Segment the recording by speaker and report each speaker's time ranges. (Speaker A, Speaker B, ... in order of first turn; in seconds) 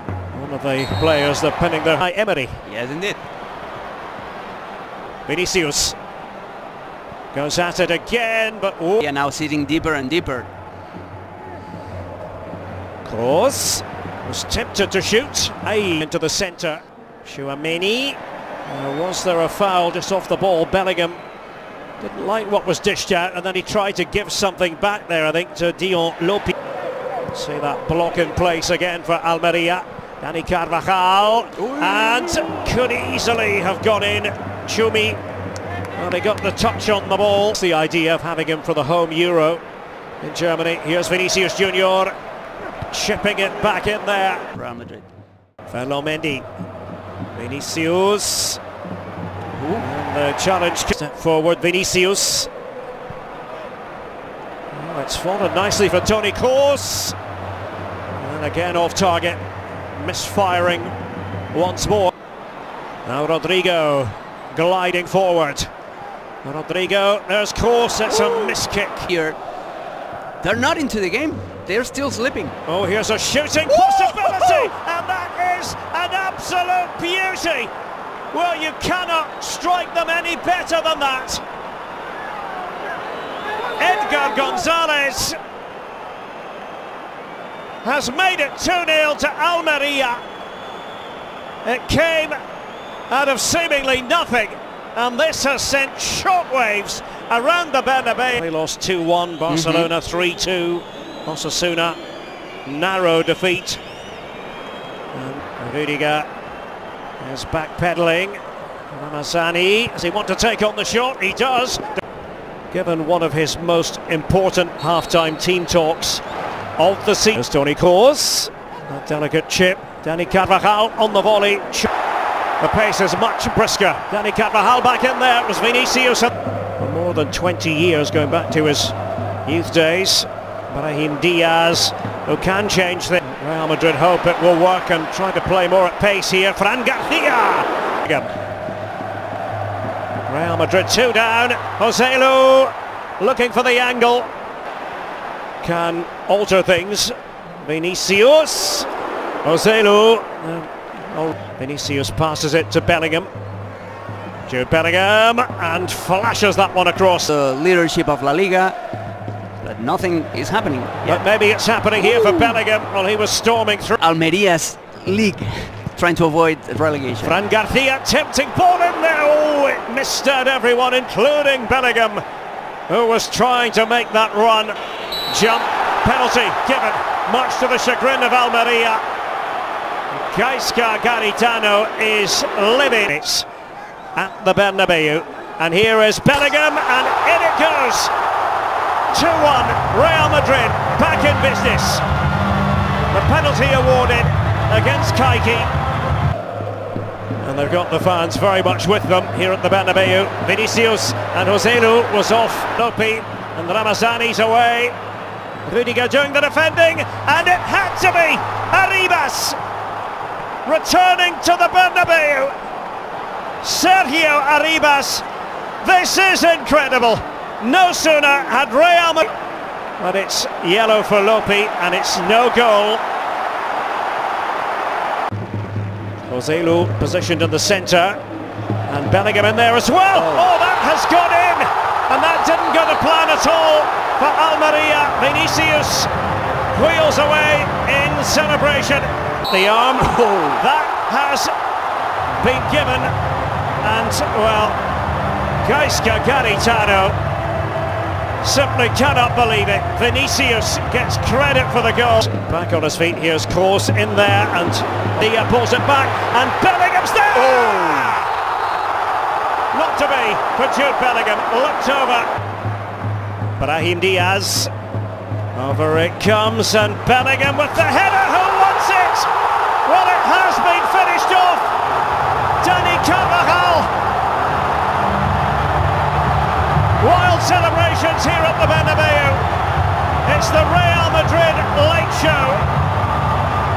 Speaker A: 0.3-2.6, 5.3-6.0, 7.3-9.1, 13.0-21.2, 22.0-26.5, 27.3-35.2, 36.0-39.6, 40.2-42.1, 42.9-44.5, 45.7-46.5, 47.3-48.6, 49.8-52.5, 54.7-57.2, 58.1-59.4, 59.9-61.0, 61.5-62.1, 63.1-65.7, 66.4-69.1, 72.7-77.7, 78.3-81.4, 83.8-85.4, 87.8-90.2, 91.6-92.4, 93.1-102.0, 102.7-103.8, 105.1-106.3, 107.2-112.0, 112.7-116.2, 116.8-121.9, 122.6-138.3, 140.3-144.3, 145.6-148.9, 149.4-153.3, 154.5-157.3, 161.1-164.0, 167.2-172.2, 172.9-174.8, 175.3-179.0, 180.1-183.5, 184.2-188.1, 189.1-192.0, 193.1-195.7, 197.4-205.0, 205.7-209.6, 210.7-212.5, 213.6-215.2, 215.8-219.3, 220.0-223.0, 226.3-228.2, 228.9-236.1, 236.7-241.5, 242.4-243.1, 243.8-244.8, 245.6-247.2, 248.4-258.3, 259.7-262.3, 263.6-264.7, 265.5-269.3, 269.9-271.7, 272.6-273.9, 277.0-279.5, 280.2-282.7
Speaker B: 2.6-3.2, 9.0-10.5, 31.6-32.5, 44.5-45.1, 49.5-49.9, 68.2-69.4, 70.4-72.6, 73.8-74.7, 99.5-99.9, 157.3-158.8, 159.6-161.2, 162.2-162.5, 164.0-167.3, 230.2-230.5